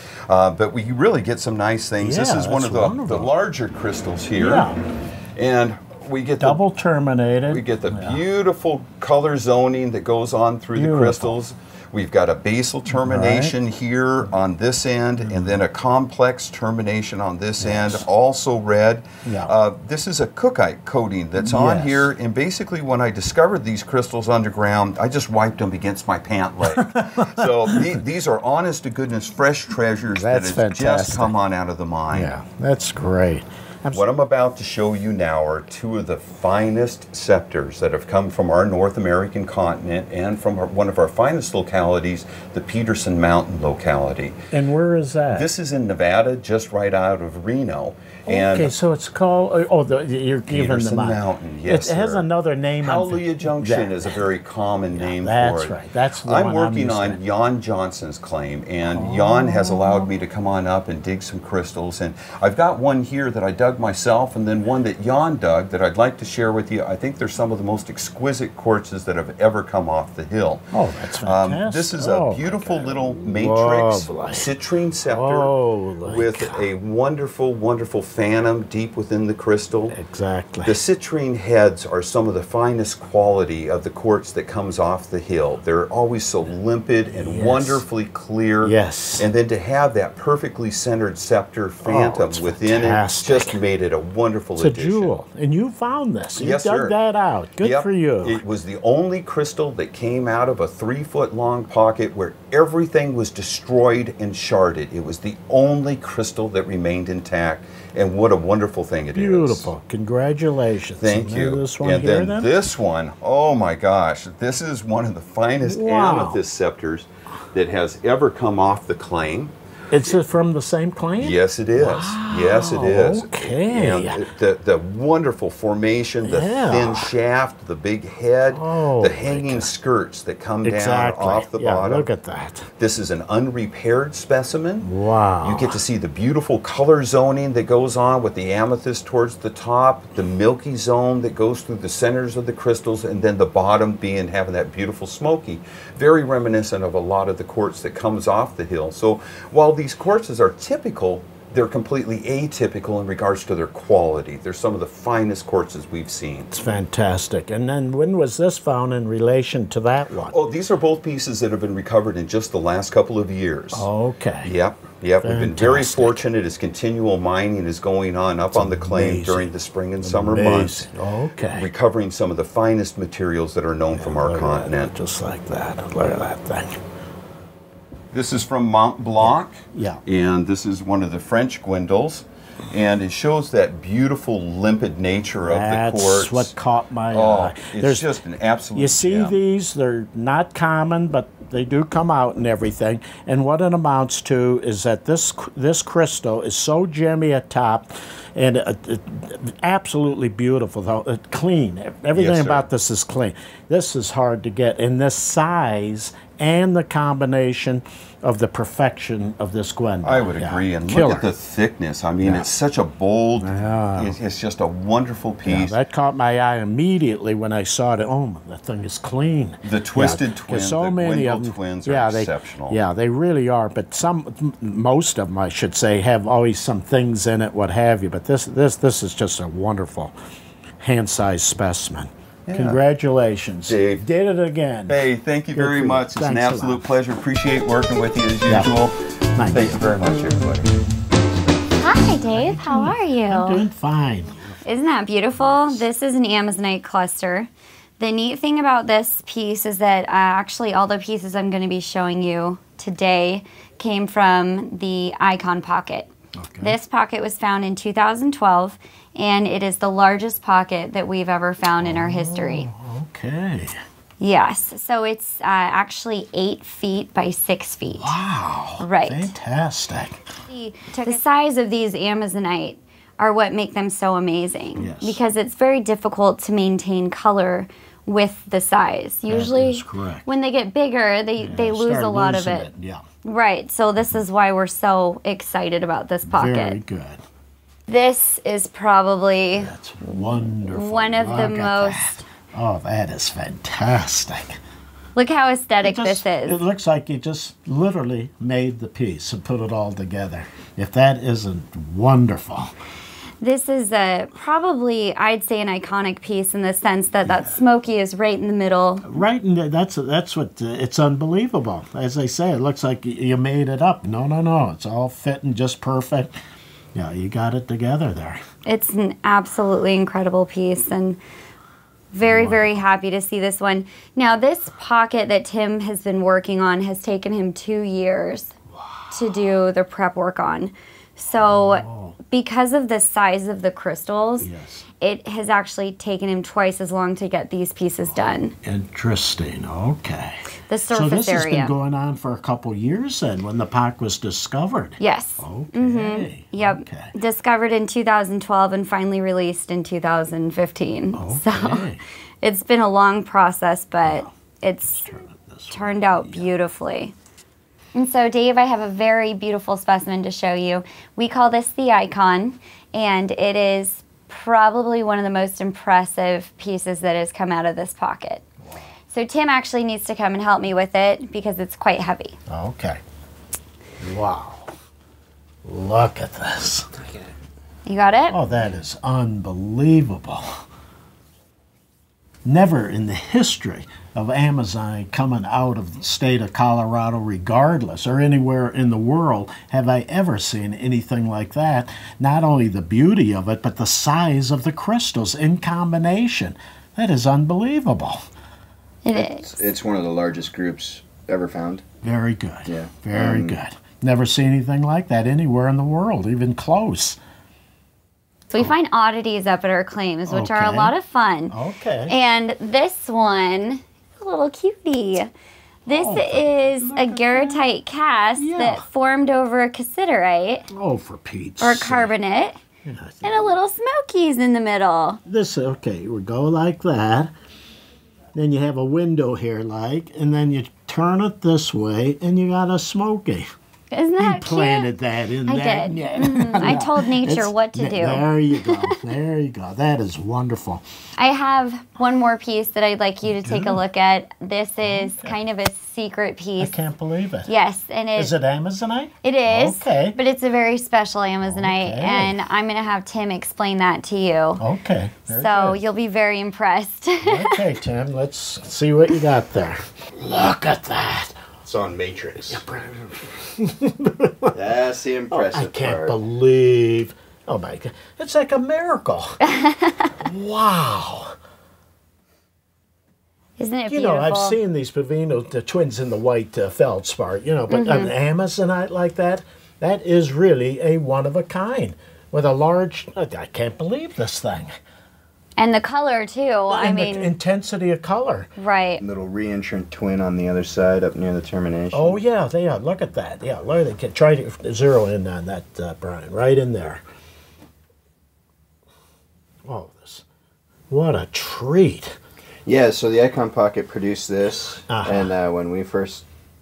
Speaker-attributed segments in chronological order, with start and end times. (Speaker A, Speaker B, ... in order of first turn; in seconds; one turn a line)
Speaker A: 0.3-4.7
Speaker B: 2.0-3.3
Speaker B: 4.4-4.8
Speaker A: 5.4-6.6
Speaker B: 6.4-8.2
Speaker A: 7.5-32.3
Speaker B: 10.8-11.4
Speaker B: 12.9-13.6
Speaker B: 15.2-15.6
Speaker B: 17.6-18.1
Speaker B: 19.2-19.5
Speaker B: 21.4-22.1
Speaker B: 26.6-28.0
Speaker B: 30.1-31.3
Speaker B: 32.1-34.1
Speaker A: 33.9-44.4
Speaker B: 44.5-45.5
Speaker A: 45.3-48.7
Speaker B: 48.3-54.3
Speaker A: 50.5-52.3
Speaker A: 52.8-70.7
Speaker B: 55.0-57.2
Speaker B: 58.9-60.1
Speaker B: 70.7-74.5
Speaker A: 71.2-80.0
Speaker B: 75.0-76.7
Speaker B: 79.9-80.8
Speaker A: 80.7-95.1
Speaker B: 87.1-87.8
Speaker B: 88.6-89.3
Speaker B: 91.8-93.6
Speaker B: 94.6-98.4
Speaker A: 96.3-97.0
Speaker A: 97.6-109.7
Speaker B: 109.1-112.5
Speaker A: 111.0-119.5
Speaker B: 115.7-116.4
Speaker B: 119.9-124.3
Speaker A: 121.2-132.1
Speaker B: 126.2-127.1
Speaker B: 128.5-129.7
Speaker B: 130.6-132.7
Speaker A: 132.8-134.9
Speaker B: 134.8-135.8
Speaker A: 135.4-156.6
Speaker B: 156.5-160.4
Speaker A: 160.3-163.9
Speaker B: 163.7-164.6
Speaker A: 164.4-170.9
Speaker B: 165.2-166.3
Speaker B: 168.5-171.7
Speaker A: 171.5-174.9
Speaker B: 173.9-176.8
Speaker A: 178.1-186.5
Speaker B: 179.2-180.0
Speaker B: 185.4-188.2
Speaker A: 187.1-189.4
Speaker B: 188.7-211.3
Speaker A: 202.1-202.7
Speaker A: 210.0-215.8
Speaker B: 212.2-212.5
Speaker B: 213.4-214.2
Speaker B: 215.4-230.2
Speaker A: 219.6-222.8
Speaker B: 230.8-236.9
Speaker A: 232.5-232.8
Speaker A: 233.7-234.1
Speaker A: 234.9-240.7
Speaker B: 238.5-238.7
Speaker B: 239.4-239.8
Speaker C: 241.8-243.6
Speaker B: 242.3-244.6
Speaker C: 244.7-256.1
Speaker B: 245.3-245.8
Speaker B: 256.4-256.8
Speaker C: 256.6-262.7
Speaker B: 261.8-263.8
Speaker C: 264.2-268.1
Speaker B: 267.9-270.2
Speaker C: 268.8-269.3
Speaker C: 270.5-282.7
Speaker B: 274.8-275.2
Speaker B: 279.3-280.3
Speaker B: 281.4-283.1
Speaker C: 283.2-286.8
Speaker B: 286.3-287.2
Speaker C: 287.9-292.1
Speaker B: 289.5-294.6
Speaker C: 295.2-296.6
Speaker B: 295.8-302.7
Speaker C: 303.4-309.1
Speaker B: 309.0-316.3
Speaker B: 316.9-318.4
Speaker C: 318.6-321.2
Speaker C: 322.1-328.5
Speaker B: 322.2-322.8
Speaker B: 328.8-329.4
Speaker C: 329.1-334.5
Speaker B: 331.4-332.2
Speaker B: 334.4-334.9
Speaker C: 335.0-338.5
Speaker B: 338.1-347.1
Speaker C: 340.7-341.7
Speaker C: 345.0-351.9
Speaker B: 351.1-352.0
Speaker C: 352.4-355.1
Speaker B: 354.0-354.3
Speaker B: 354.9-356.5
Speaker C: 355.7-357.1
Speaker C: 357.9-368.4
Speaker C: 369.1-372.4
Speaker B: 372.5-373.0
Speaker B: 374.0-374.7
Speaker B: 375.6-377.1
Speaker C: 377.9-378.4
Speaker B: 378.3-380.6
Speaker B: 382.4-398.3
Speaker C: 399.1-399.6
Speaker D: 399.1-401.8
Speaker B: 402.0-407.2
Speaker D: 402.7-403.6
Speaker C: 408.5-411.5
Speaker B: 410.3-411.0
Speaker B: 411.5-412.2
Speaker C: 412.1-415.3
Speaker C: 415.9-420.7
Speaker B: 415.9-417.7
Speaker B: 418.4-418.9
Speaker B: 420.7-422.1
Speaker C: 421.6-422.6
Speaker B: 422.9-423.5
Speaker C: 423.2-425.2
Speaker B: 425.2-427.3
Speaker B: 428.3-433.5
Speaker C: 433.9-434.9
Speaker B: 434.2-440.9
Speaker C: 435.5-438.8
Speaker C: 441.2-446.7
Speaker B: 443.4-443.9
Speaker B: 444.8-445.4
Speaker B: 446.6-447.5
Speaker C: 447.5-448.4
Speaker B: 448.1-450.2
Speaker C: 449.2-454.6
Speaker B: 451.4-452.4
Speaker B: 454.6-455.8
Speaker C: 455.3-457.5
Speaker B: 457.2-461.4
Speaker D: 461.6-462.6
Speaker B: 462.5-464.5
Speaker D: 464.5-466.2
Speaker B: 465.3-469.4
Speaker C: 469.5-470.1
Speaker B: 470.2-471.4
Speaker C: 473.6-474.6
Speaker B: 473.9-484.7
Speaker C: 477.7-478.1
Speaker C: 485.6-487.3
Speaker B: 486.7-488.5
Speaker C: 488.6-489.0
Speaker D: 489.0-492.2
Speaker B: 491.9-497.0
Speaker B: 499.6-500.2
Speaker B: 500.9-502.2
Speaker D: 502.7-506.2
Speaker B: 504.9-505.3